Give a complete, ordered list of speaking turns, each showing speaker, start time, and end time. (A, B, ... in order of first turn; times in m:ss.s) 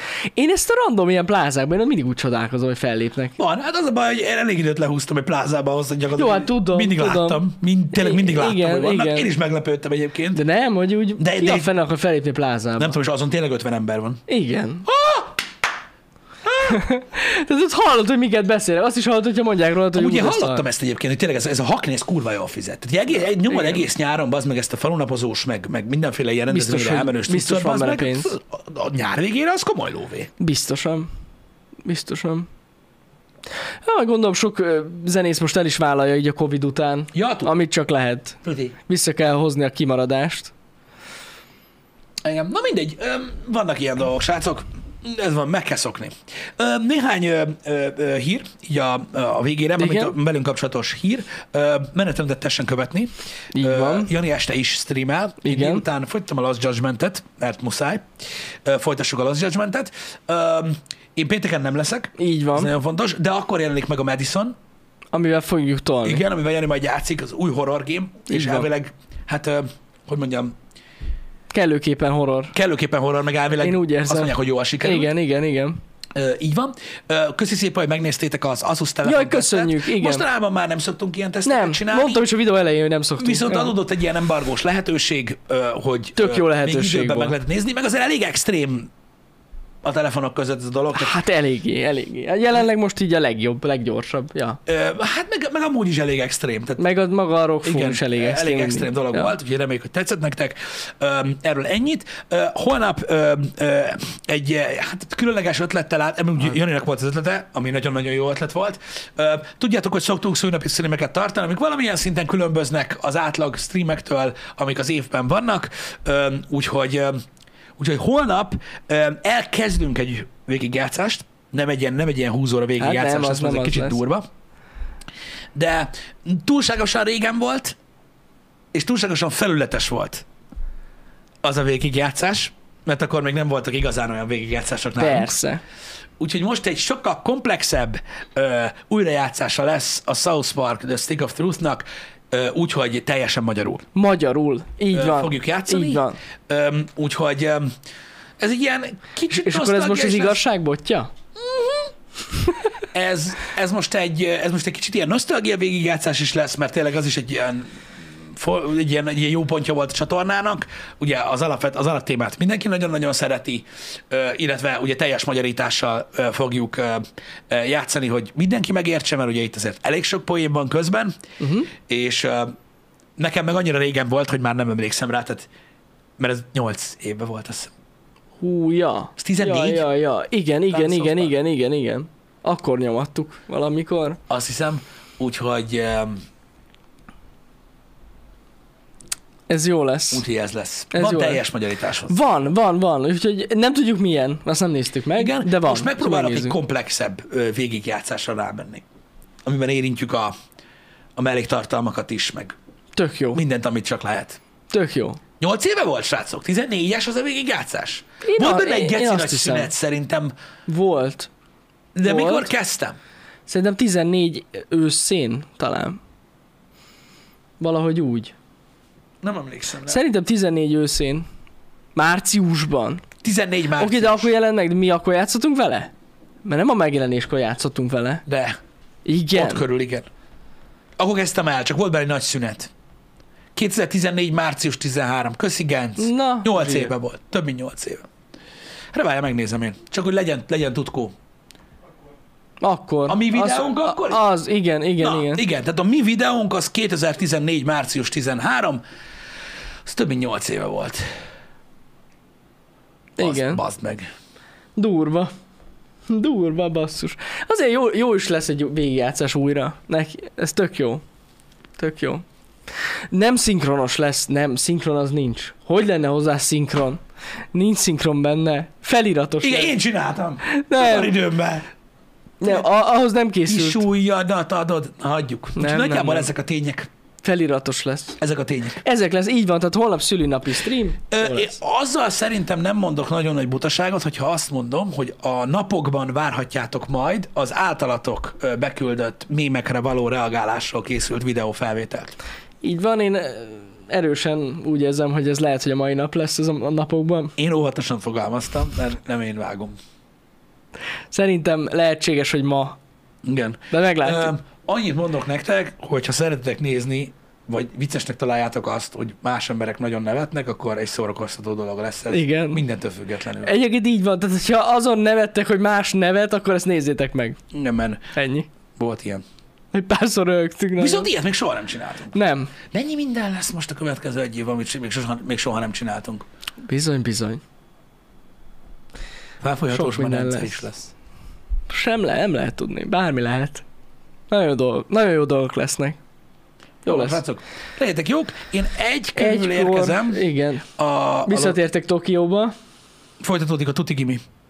0:00.3-0:03.4 A
0:03.4-0:10.4 B
0:06.2-0:09.3 A
0:10.3-0:13.0 A
0:11.2-0:11.7 B
0:12.8-0:14.2 B
0:14.3-0:14.9 A
0:14.9-0:15.4 B
0:16.5-0:16.7 B
0:16.6-0:20.6 A
0:19.9-0:30.3 B
0:23.5-0:23.8 A
0:26.5-0:28.3 A
0:30.4-0:31.1 A
0:31.8-0:32.5 A
0:33.8-0:40.5 A
0:37.1-0:37.5 B
0:38.4-0:38.8 B
0:42.2-0:58.0 B
0:49.8-0:50.1 A
0:53.5-0:54.1 A
0:55.4-0:55.8 A
0:58.6-1:04.6 B
1:02.2-1:02.7 A
1:05.1-1:06.2 A
1:06.0-1:10.6 B
1:08.3-1:08.7 A
1:11.5-1:12.6 A
1:12.5-1:15.1 B
1:13.5-1:15.8 A
1:16.1-1:22.2 B
1:19.0-1:20.2 A
1:21.4-1:23.8 A
1:23.2-1:28.9 B
1:26.2-1:27.3 A
1:29.8-1:31.2 B
1:30.9-1:34.6 A
1:34.7-1:36.8 B
1:36.8-1:39.3 A
1:37.6-1:57.2 B
1:57.8-2:04.2 B
2:02.8-2:04.0 A
2:05.6-2:07.8 B
2:08.7-2:10.2 B
2:11.4-2:15.3 B
2:15.0-2:15.6 A
2:16.2-2:23.8 B
2:24.0-2:26.2 A
2:24.9-2:27.7 B
2:28.4-2:30.4 B
2:29.3-2:31.1 A
2:31.4-2:31.9 B
2:32.9-2:51.1 B
2:51.4-2:51.7 A
2:51.7-2:52.5 B
2:53.2-2:55.5 B
2:56.2-2:57.7 B
2:58.4-3:04.2 A
2:59.2-2:59.9 B
3:00.7-3:01.3 B
3:04.3-3:06.2 B
3:09.5-3:10.2 A
3:10.1-3:12.2 B
3:10.9-3:11.4 A
3:12.1-3:16.6 A
3:15.2-3:18.8 B
3:19.4-3:20.3 B
3:21.2-3:22.6 B
3:23.0-3:23.4 A
3:23.3-3:24.4 B
3:24.7-3:25.2 A
3:25.4-3:30.3 B
3:28.2-3:29.7 A
3:30.7-3:31.3 A
3:32.0-3:33.0 B
3:32.0-3:32.5 A
3:33.5-3:36.0 A
3:37.6-3:38.3 A
3:39.2-3:40.0 B
3:39.9-3:41.3 A
3:42.0-3:43.0 A
3:43.2-3:44.3 B
3:43.8-3:45.9 A
3:46.4-3:48.2 A
3:48.3-3:48.6 B
3:49.0-3:49.6 A
3:49.3-3:50.1 B
3:51.0-3:52.7 B
3:53.6-3:58.0 B
3:56.0-3:56.9 A
3:58.9-4:01.1 B
4:02.6-4:05.4 A
4:03.1-4:04.2 B
4:05.0-4:08.8 B
4:09.8-4:11.0 B
4:13.2-4:13.6 A
4:13.2-4:14.1 B
4:14.8-4:15.3 A
4:16.1-4:21.0 A
4:21.8-4:22.2 A
4:23.1-4:27.0 A
4:27.5-4:29.7 A
4:29.4-4:31.7 B
4:30.4-4:31.1 A
4:32.4-4:33.8 A
4:33.5-4:36.9 B
4:35.6-4:36.3 A
4:37.2-4:38.2 A
4:38.2-4:38.8 B
4:38.8-4:41.6 A
4:41.1-4:52.1 B
4:52.6-4:57.3 A
4:57.4-4:59.8 B
5:01.1-5:02.8 A
5:03.2-5:13.5 B
5:03.7-5:04.3 A
5:12.1-5:12.6 A
5:13.4-5:17.4 A
5:17.5-5:18.1 B
5:18.1-5:18.5 A
5:18.8-5:19.2 B
5:19.7-5:21.1 A
5:20.8-5:26.3 B
5:22.1-5:22.5 A
5:26.6-5:27.4 A
5:29.4-5:30.9 B
5:29.7-5:30.6 A
5:31.7-5:33.6 A
5:34.3-5:36.0 A
5:36.8-5:37.2 A
5:36.9-5:40.2 B
5:39.1-5:40.7 A
5:40.8-5:41.6 B
5:41.3-5:42.5 A
5:43.2-5:44.2 B